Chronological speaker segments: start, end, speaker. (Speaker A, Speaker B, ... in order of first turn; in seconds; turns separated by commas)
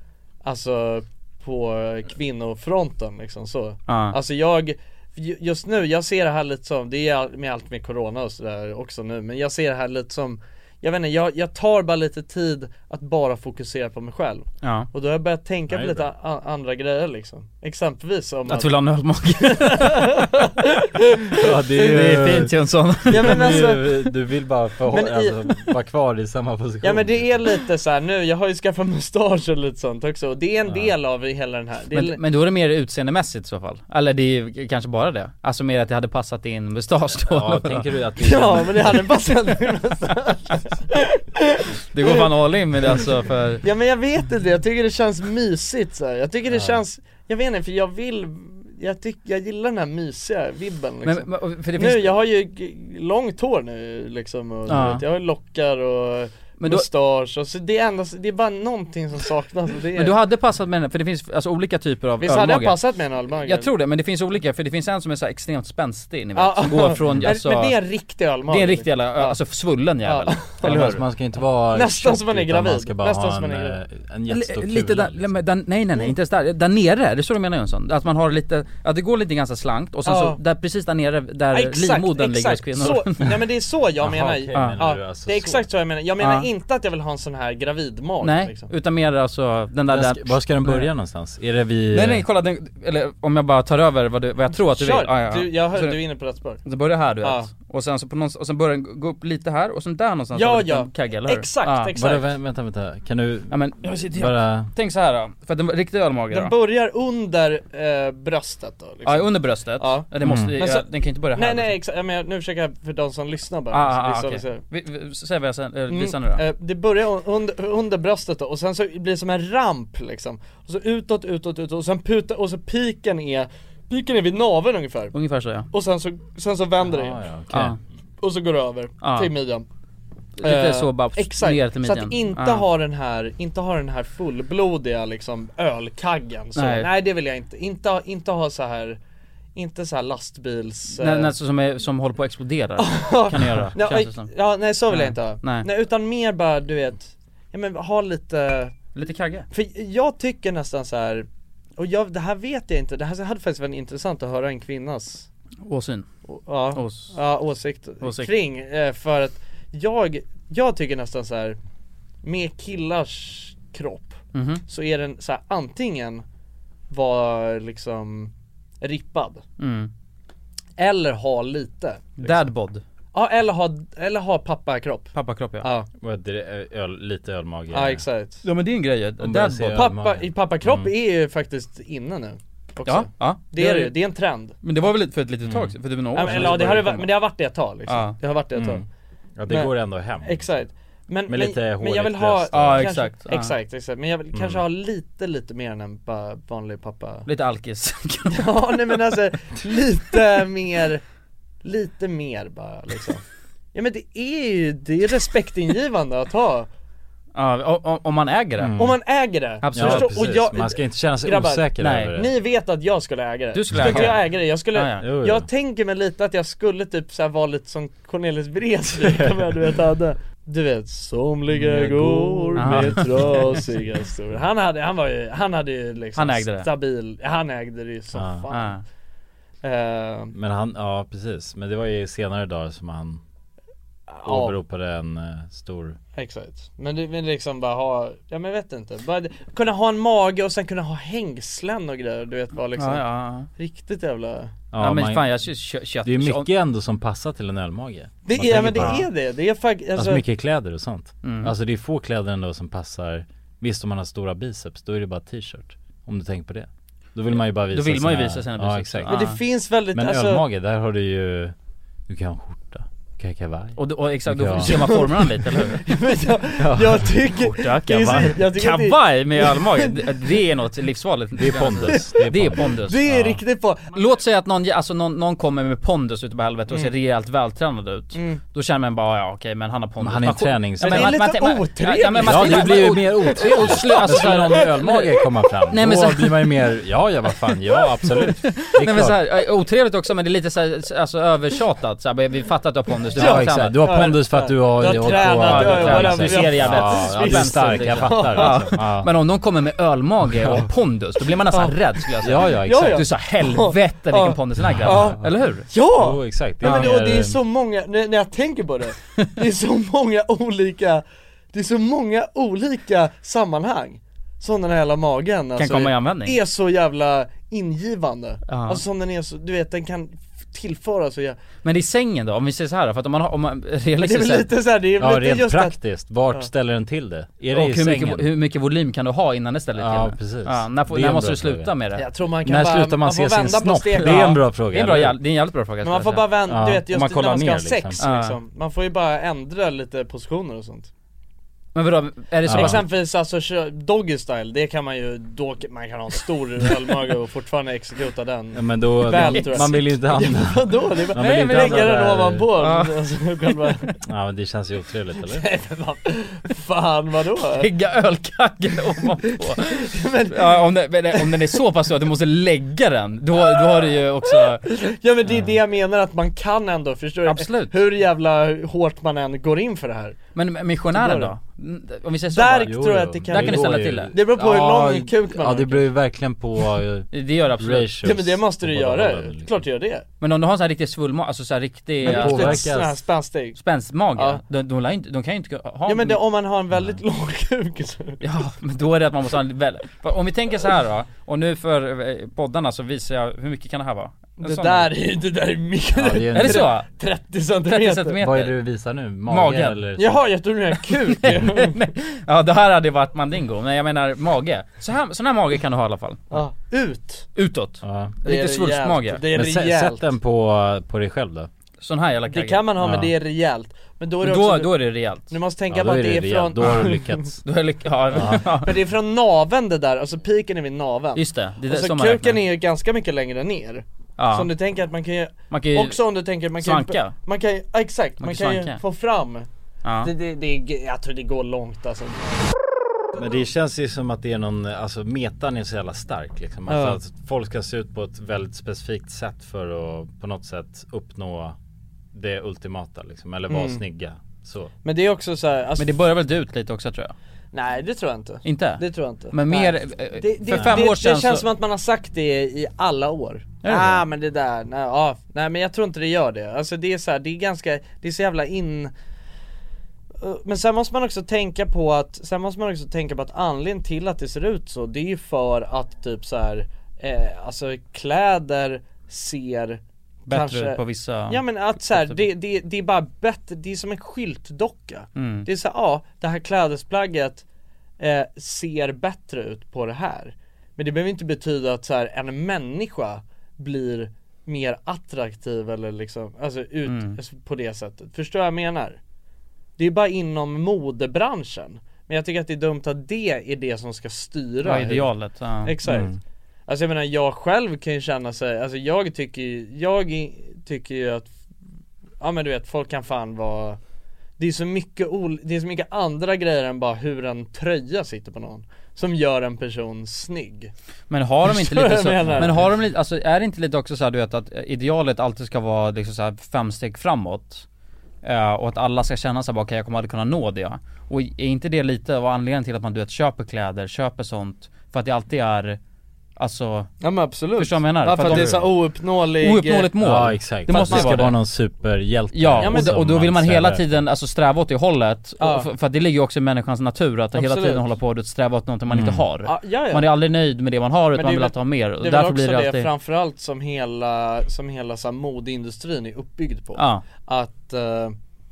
Speaker A: 0.4-18.7, Speaker B: 3.9-4.1, Speaker B: 14.6-14.9, Speaker C: 15.7-16.1, Speaker B: 18.5-20.2, Speaker A: 19.4-21.0, Speaker C: 21.4-22.5, Speaker B: 21.7-23.6, Speaker C: 23.1-27.4, Speaker A: 23.1-24.1, Speaker A: 24.9-25.5, Speaker A: 26.8-32.2, Speaker B: 31.9-37.9, Speaker C: 37.2-39.1, Speaker A: 38.2-42.2, Speaker B: 41.9-43.6, Speaker A: 43.6-60.1, Speaker C: 46.5-46.8, Speaker B: 51.0-52.1, Speaker B: 54.7-55.0, Speaker B: 56.6-56.9, Speaker B: 60.0-62.8, Speaker A: 62.2-63.7, Speaker B: 63.4-67.8, Speaker A: 66.3-69.4, Speaker B: 68.5-71.0, Speaker A: 70.0-70.9, Speaker C: 70.6-75.3, Speaker A: 71.7-73.8, Speaker B: 74.3-83.3, Speaker A: 80.0-80.4, Speaker A: 81.5-88.7, Speaker C: 84.0-85.7, Speaker B: 84.5-84.8, Speaker B: 86.2-86.5, Speaker B: 88.2-90.9, Speaker C: 89.9-92.2, Speaker B: 91.9-96.0, Speaker A: 94.5-96.6, Speaker B: 96.6-101.9, Speaker A: 97.2-97.5, Speaker A: 100.3-102.3, Speaker C: 102.0-104.7, Speaker B: 103.5-106.5, Speaker A: 106.3-114.6, Speaker B: 109.0-111.7, Speaker C: 110.2-110.5, Speaker B: 113.7-116.4, Speaker A: 115.9-125.1, Speaker B: 125.1-125.7, Speaker A: 125.7-127.2, Speaker C: 126.8-127.8, Speaker B: 127.5-127.8, Speaker A: 128.2-129.6, Speaker B: 129.0-129.3, Speaker B: 130.4-132.7, Speaker A: 130.4-139.0, Speaker B: 136.6-136.9, Speaker A: 139.5-141.3, Speaker B: 141.0-144.3, Speaker A: 142.8-148.7, Speaker B: 144.9-145.7, Speaker B: 148.9-149.5, Speaker A: 149.5-155.3, Speaker B: 155.6-156.1, Speaker A: 156.3-161.6, Speaker B: 156.7-157.2, Speaker B: 158.0-158.3, Speaker A: 162.2-166.2, Speaker B: 164.3-164.6, Speaker A: 166.9-169.4, Speaker B: 169.6-169.9, Speaker A: 170.8-172.5, Speaker B: 172.2-172.8, Speaker A: 173.1-175.9, Speaker B: 175.1-175.7, Speaker C: 176.0-178.0, Speaker A: 177.7-178.4, Speaker B: 178.4-179.8, Speaker C: 179.2-180.9, Speaker A: 179.7-184.6, Speaker B: 182.8-183.9, Speaker B: 184.6-187.1, Speaker C: 185.4-186.9, Speaker A: 186.1-188.8, Speaker B: 187.9-188.2, Speaker C: 188.5-188.8, Speaker C: 189.4-190.6, Speaker A: 189.5-197.3, Speaker C: 191.3-192.9, Speaker B: 192.5-193.5, Speaker C: 194.3-194.6, Speaker B: 197.3-199.0, Speaker A: 198.3-201.0, Speaker A: 201.6-203.2, Speaker A: 203.7-206.7, Speaker B: 207.3-208.7, Speaker C: 208.6-209.0, Speaker A: 208.8-228.8, Speaker B: 209.6-210.1, Speaker C: 209.7-212.3, Speaker B: 211.8-212.1, Speaker B: 213.5-214.2, Speaker C: 213.7-214.1, Speaker B: 214.7-215.0, Speaker C: 215.0-215.4, Speaker C: 219.0-219.4, Speaker C: 221.5-223.8, Speaker B: 222.6-223.5, Speaker B: 226.2-226.7, Speaker C: 228.1-228.5, Speaker B: 228.5-228.8, Speaker A: 229.6-230.3, Speaker C: 230.3-233.2, Speaker A: 234.1-234.6, Speaker C: 234.2-236.0, Speaker A: 236.1-244.5, Speaker B: 242.8-243.5, Speaker C: 244.7-245.4, Speaker B: 244.8-246.5, Speaker C: 246.0-249.0, Speaker A: 248.2-250.2, Speaker B: 248.4-249.0, Speaker C: 249.9-259.2, Speaker B: 251.2-251.5, Speaker B: 257.3-259.4, Speaker A: 259.1-260.4, Speaker C: 259.9-261.5, Speaker C: 262.1-264.7, Speaker B: 263.8-266.0, Speaker A: 264.6-270.1, Speaker C: 266.6-267.1, Speaker B: 267.4-273.1, Speaker C: 271.4-273.4, Speaker A: 271.9-273.9, Speaker B: 273.9-286.8, Speaker A: 278.1-278.4, Speaker C: 280.0-281.2, Speaker A: 280.8-284.3, Speaker C: 282.2-289.2, Speaker B: 288.1-294.1, Speaker A: 293.1-298.7, Speaker C: 293.1-299.1, Speaker B: 294.9-305.7, Speaker C: 300.4-300.6, Speaker C: 302.2-303.0, Speaker A: 302.6-321.4, Speaker C: 304.7-305.3, Speaker C: 305.9-307.4, Speaker B: 306.6-306.9, Speaker B: 315.6-316.4, Speaker B: 318.5-318.8, Speaker B: 321.6-324.5, Speaker A: 324.0-325.8, Speaker C: 325.0-328.2, Speaker B: 327.5-332.0, Speaker C: 329.8-331.7, Speaker A: 331.9-334.4, Speaker C: 332.4-335.1, Speaker B: 334.0-336.2, Speaker A: 335.8-340.9, Speaker C: 336.5-338.0, Speaker B: 338.0-338.4, Speaker B: 341.7-342.8, Speaker C: 342.4-342.8, Speaker A: 342.5-353.9, Speaker C: 348.5-352.5, Speaker B: 349.1-349.9, Speaker B: 351.1-353.5, Speaker C: 354.0-355.4, Speaker A: 355.2-357.7, Speaker B: 357.6-364.6, Speaker A: 359.6-360.6, Speaker A: 363.9-370.2, Speaker C: 365.2-365.6, Speaker B: 367.3-367.8, Speaker B: 370.3-374.1, Speaker A: 370.9-371.3, Speaker A: 372.3-375.9, Speaker C: 372.6-379.6, Speaker B: 377.1-377.9, Speaker A: 378.0-380.0, Speaker B: 380.2-382.6, Speaker C: 382.0-383.0, Speaker A: 382.0-383.6, Speaker B: 383.6-386.2, Speaker A: 384.1-384.4, Speaker A: 385.9-388.2, Speaker C: 386.7-387.0, Speaker B: 388.2-394.9, Speaker A: 394.4-398.2, Speaker C: 395.9-396.7, Speaker B: 396.3-396.9, Speaker B: 397.7-398.6, Speaker C: 398.2-400.2, Speaker B: 399.3-399.8, Speaker A: 400.0-401.8, Speaker B: 401.2-406.2, Speaker A: 406.3-407.3, Speaker B: 407.4-409.2, Speaker C: 407.8-408.1, Speaker A: 408.2-410.1, Speaker C: 409.3-411.5, Speaker B: 411.8-412.7, Speaker A: 412.3-414.7, Speaker C: 412.8-413.1, Speaker B: 414.2-415.3, Speaker A: 415.3-417.2, Speaker C: 415.7-417.4, Speaker B: 417.4-418.8, Speaker A: 418.1-429.5, Speaker C: 418.2-418.5, Speaker B: 421.1-422.4, Speaker B: 424.2-424.5, Speaker B: 425.5-426.0, Speaker B: 426.6-427.1, Speaker B: 428.2-428.8, Speaker B: 429.8-430.1, Speaker A: 430.0-432.4, Speaker C: 433.1-441.6, Speaker A: 436.7-437.0, Speaker C: 442.1-444.7, Speaker A: 443.5-443.8, Speaker A: 444.8-445.9, Speaker B: 445.8-447.1, Speaker A: 447.5-458.9, Speaker B: 448.4-451.4, Speaker C: 450.5-450.8, Speaker B: 453.6-454.0, Speaker A: 460.2-477.4, Speaker B: 470.3-472.2, Speaker B: 475.1-475.5, Speaker A: 478.0-489.0, Speaker B: 486.9-487.2, Speaker A: 489.8-495.1, Speaker B: 494.6-495.8, Speaker A: 495.6-496.1, Speaker C: 495.8-496.2, Speaker A: 496.7-501.3, Speaker A: 502.2-503.8, Speaker A: 504.4-510.7, Speaker B: 511.1-517.6, Speaker A: 511.4-512.7, Speaker B: 518.2-525.8, Speaker B: 526.4-526.9, Speaker A: 527.0-529.9, Speaker B: 527.5-528.7, Speaker C: 528.2-528.6, Speaker B: 529.4-531.4, Speaker C: 530.0-533.8, Speaker A: 530.7-531.3, Speaker B: 532.3-542.9, Speaker A: 532.6-533.0, Speaker A: 535.4-535.7, Speaker A: 537.3-537.8, Speaker C: 538.9-539.2, Speaker A: 539.4-540.1, Speaker A: 541.1-548.1, Speaker B: 546.8-547.0